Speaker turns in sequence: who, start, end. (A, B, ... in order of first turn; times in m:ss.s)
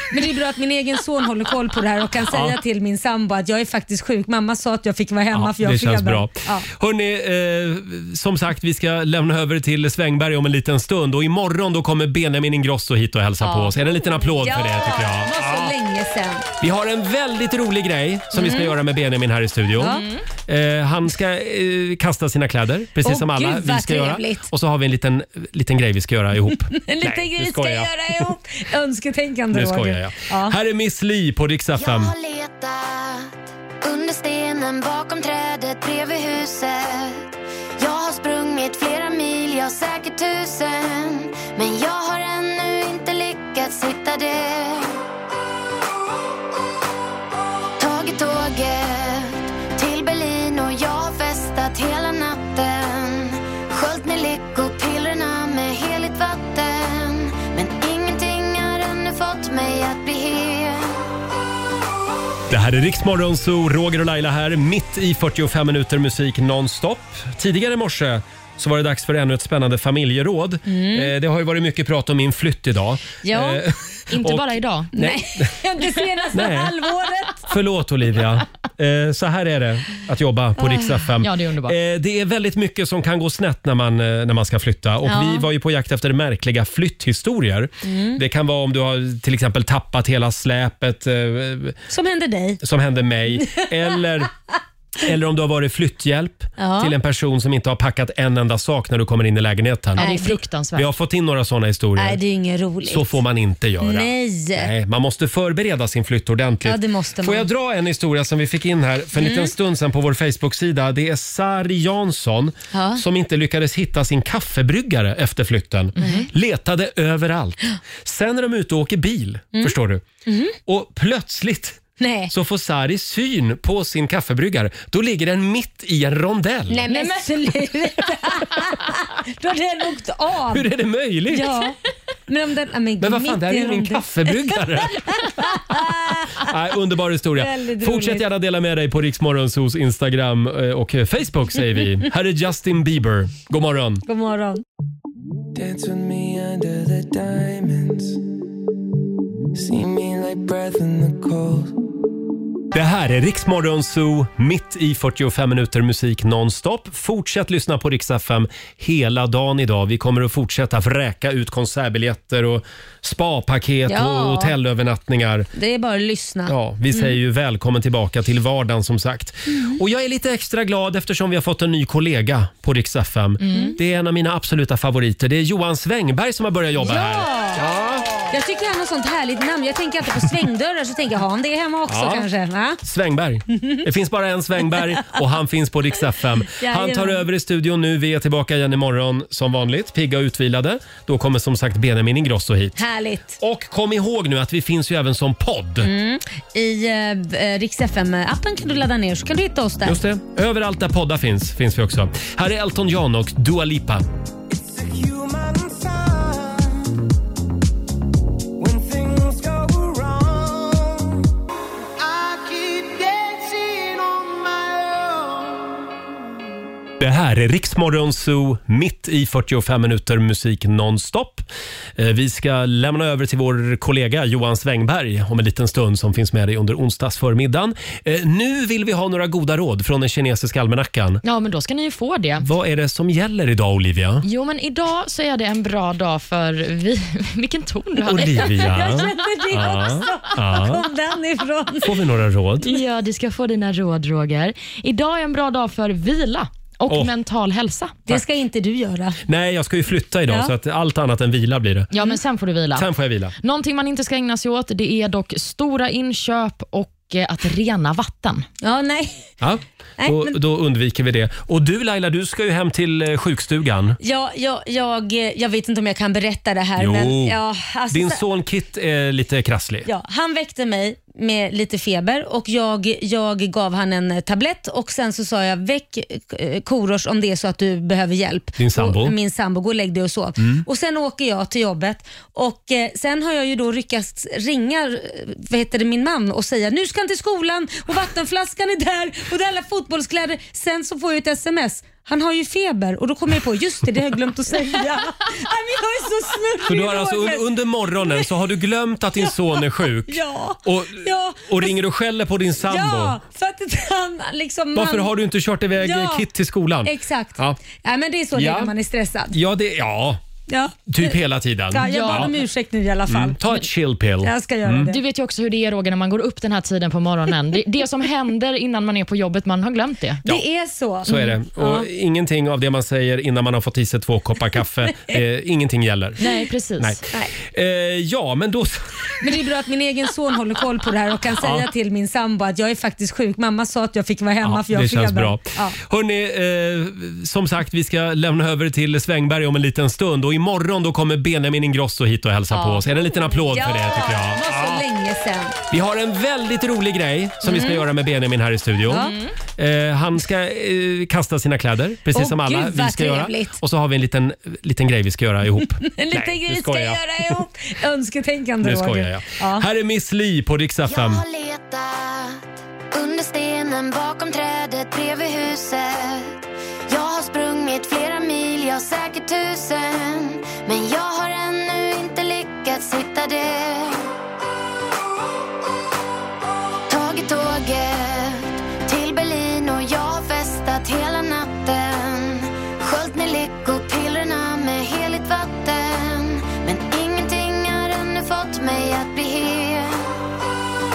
0:00.1-0:06.7 A
0:02.3-0:02.6 B
0:05.3-0:15.7 B
0:13.4-0:16.5 A
0:16.6-0:27.9 B
0:18.3-0:18.8 A
0:19.8-0:20.1 A
0:23.0-0:24.4 A
0:26.7-0:30.6 A
0:29.5-0:32.1 B
0:31.8-0:37.3 C
0:37.8-0:45.0 C
0:47.8-1:01.0 C
1:02.5-1:15.5 B
1:10.7-1:11.1 A
1:13.2-1:13.6 A
1:14.1-1:14.9 D
1:15.0-1:17.5 A
1:16.3-1:16.7 B
1:17.5-1:31.8 B
1:20.6-1:21.1 A
1:21.2-1:21.8 D
1:25.0-1:25.5 A
1:27.8-1:28.2 A
1:31.9-1:32.6 A
1:32.6-1:34.3 B
1:33.4-1:34.0 A
1:35.0-1:40.0 B
1:36.6-1:36.9 A
1:40.0-1:40.9 D
1:40.0-1:40.3 A
1:40.8-1:42.2 B
1:42.0-1:43.2 A
1:42.9-2:00.0 B
1:43.8-1:44.7 A
1:46.6-1:47.5 A
1:49.2-1:49.5 A
1:52.7-1:53.0 A
1:56.0-1:56.3 D
1:56.0-1:56.3 A
2:00.3-2:00.6 A
2:00.7-2:06.8 B
2:02.0-2:02.3 A
2:06.7-2:10.7 A
2:06.9-2:07.3 D
2:10.5-2:11.5 B
2:11.3-2:11.8 A
2:12.3-2:16.5 A
2:13.0-2:15.6 B
2:16.4-2:24.0 B
2:17.4-2:18.3 A
2:24.1-2:24.6 A
2:25.6-2:28.2 E
2:29.6-2:31.8 E
2:32.7-2:45.5 B
2:43.9-2:44.6 A
2:45.6-2:47.2 A
2:46.5-2:58.3 B
2:49.5-2:49.8 A
2:53.4-2:53.8 D
2:56.8-2:57.6 A
2:58.3-3:02.8 A
3:01.9-3:02.3 B
3:02.8-3:12.8 B
3:06.5-3:07.2 A
3:12.8-3:13.4 A
3:13.4-3:15.9 B
3:15.8-3:20.0 A
3:19.8-3:24.0 B
3:24.5-3:26.9 E
3:28.6-3:31.2 E
3:32.0-3:35.6 E
3:37.0-3:41.5 B
3:42.0-3:51.2 B
3:51.2-3:52.4 D
3:52.4-3:54.2 B
3:54.2-3:59.0 D
3:58.1-4:00.8 B
3:58.1-4:01.9 A
4:01.8-4:02.7 B
4:02.6-4:08.0 D
4:08.1-4:09.2 A
4:09.3-4:11.9 B
4:11.9-4:12.9 D
4:12.8-4:13.3 B
4:13.4-4:18.4 D
4:18.6-4:19.3 A
4:19.4-4:24.0 B
4:20.0-4:20.4 A
4:24.0-4:28.2 A
4:26.8-4:27.4 B
4:27.9-4:29.9 B
4:29.9-4:58.3 A
4:38.6-4:39.2 B
4:56.6-5:03.2 B
4:59.2-5:01.8 A
5:02.6-5:05.1 A
5:04.8-5:07.6 B
5:05.8-5:06.2 A
5:06.8-5:09.3 A
5:08.4-5:08.7 B
5:09.3-5:10.2 B
5:10.5-5:11.2 A
5:10.9-5:12.3 B
5:11.7-5:13.4 A
5:11.9-5:12.3 D
5:13.1-5:14.9 B
5:14.2-5:15.0 A
5:14.9-5:20.2 D
5:20.3-5:21.9 A
5:21.1-5:26.2 B
5:26.2-5:27.0 D
5:26.8-5:28.8 B
5:29.2-5:35.8 A
5:31.4-5:31.7 B
5:34.4-5:44.8 B
5:42.5-5:45.6 A
5:45.7-5:57.0 B
5:47.4-5:47.9 A
5:48.9-5:49.2 A
5:52.1-5:53.5 A
5:55.8-5:59.7 A
5:58.6-6:01.2 B
6:00.9-6:06.4 C
6:06.9-6:14.1 C
6:16.9-6:30.1 C